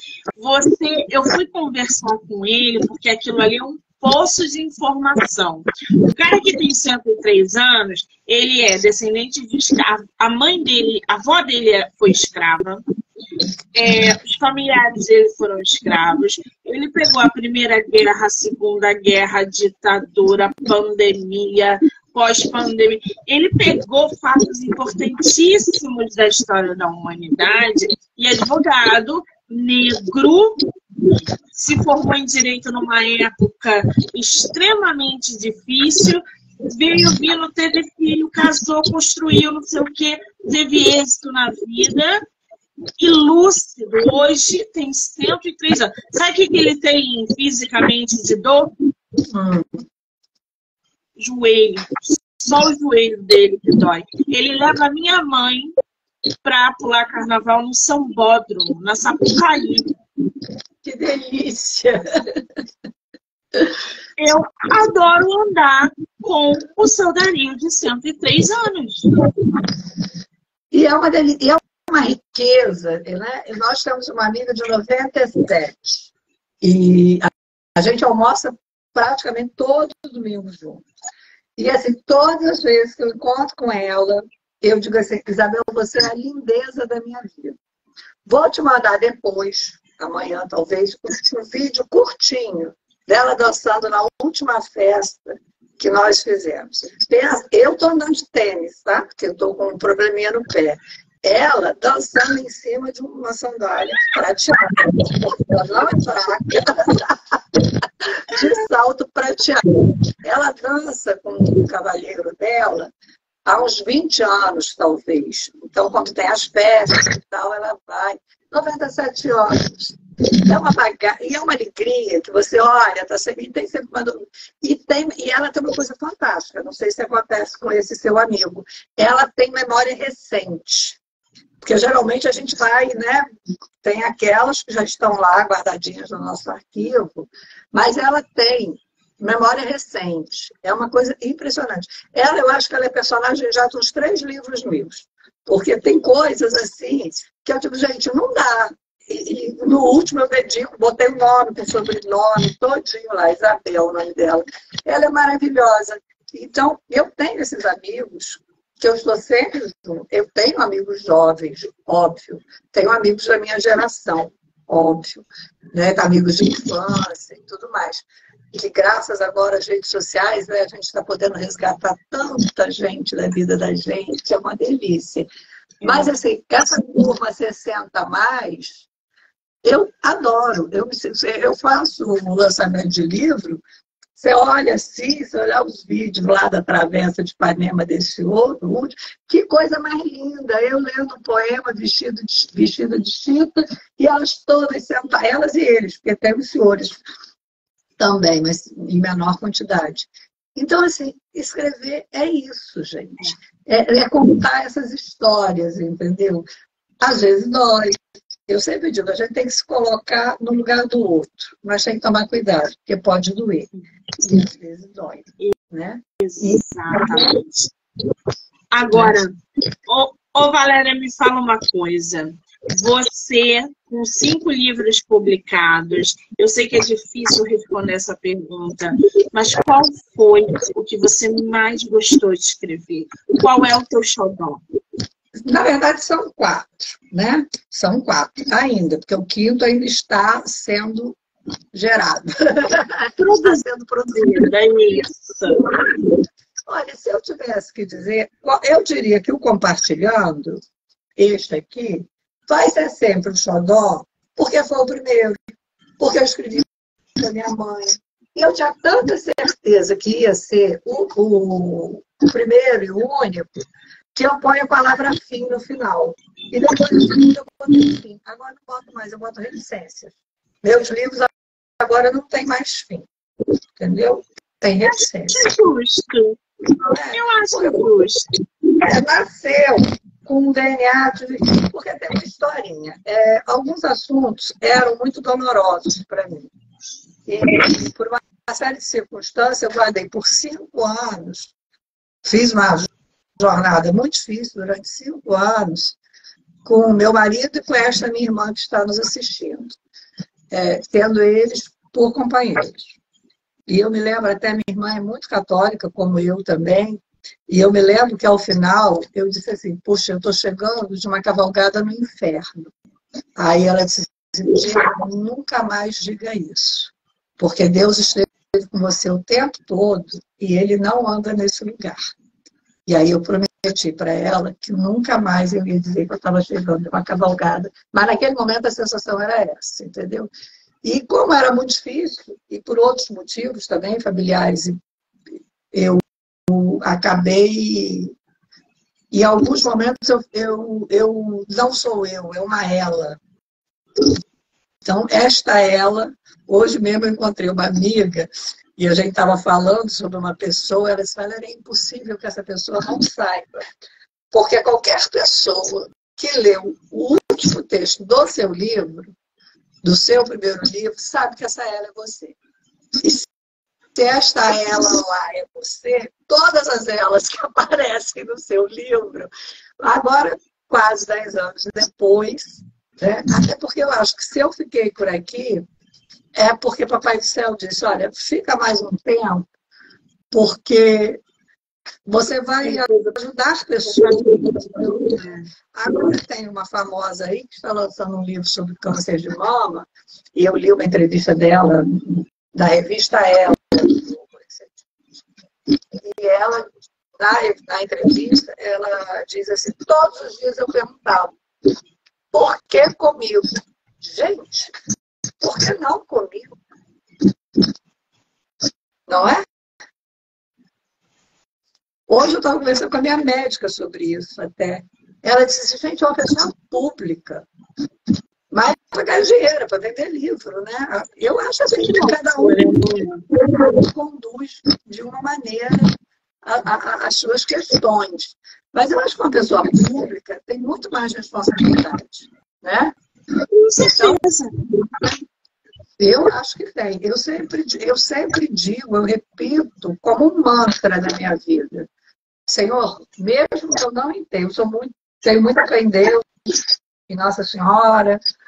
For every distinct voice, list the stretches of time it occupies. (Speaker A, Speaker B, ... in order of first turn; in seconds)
Speaker A: 0.3-12.8, 13.7-30.6, 31.5-42.2, 43.0-48.7, 51.2-55.7, 56.4-59.9, 64.2-69.1, 175.8-176.1, 216.2-217.7, 218.7-219.3, 219.9-234.6, 243.2-245.7, 274.8-276.4, 277.1-278.3, 382.6-383.2, 383.9-385.4, 421.9-423.2, 433.4-434.6
Speaker B: 49.3-49.8, 60.8-62.4, 70.7-76.1, 76.6-80.9, 81.6-87.6, 88.3-109.6, 110.2-112.9, 113.5-131.0, 131.6-133.2, 133.8-175.3, 175.8-178.9, 179.6-183.6, 184.2-197.0, 198.0-206.4, 207.0-217.1, 235.4-241.2, 241.7-244.5, 245.8-246.1, 246.7-250.6, 251.2-255.4, 256.0-263.5, 264.1-273.1, 273.8-275.5, 276.9-277.8, 278.8-286.5, 287.3-291.5, 292.2-292.9, 293.4-296.0, 296.6-299.8, 300.5-302.9, 303.7-312.7, 313.4-322.0, 322.9-330.3, 330.8-334.8, 335.7-338.1, 339.1-343.2, 344.8-353.6, 354.3-359.1, 359.8-362.4, 363.0-363.3, 363.9-369.3, 369.8-375.6, 376.4-379.5, 380.3-381.2, 382.1-385.2, 385.7-394.8, 396.0-401.4, 402.3-403.5, 404.0-404.7, 405.4-406.6, 409.1-409.4, 412.1-417.4, 418.5-425.9, 426.4-432.9, 433.8-434.2, 436.0-441.9, 442.5-446.3, 447.1-448.2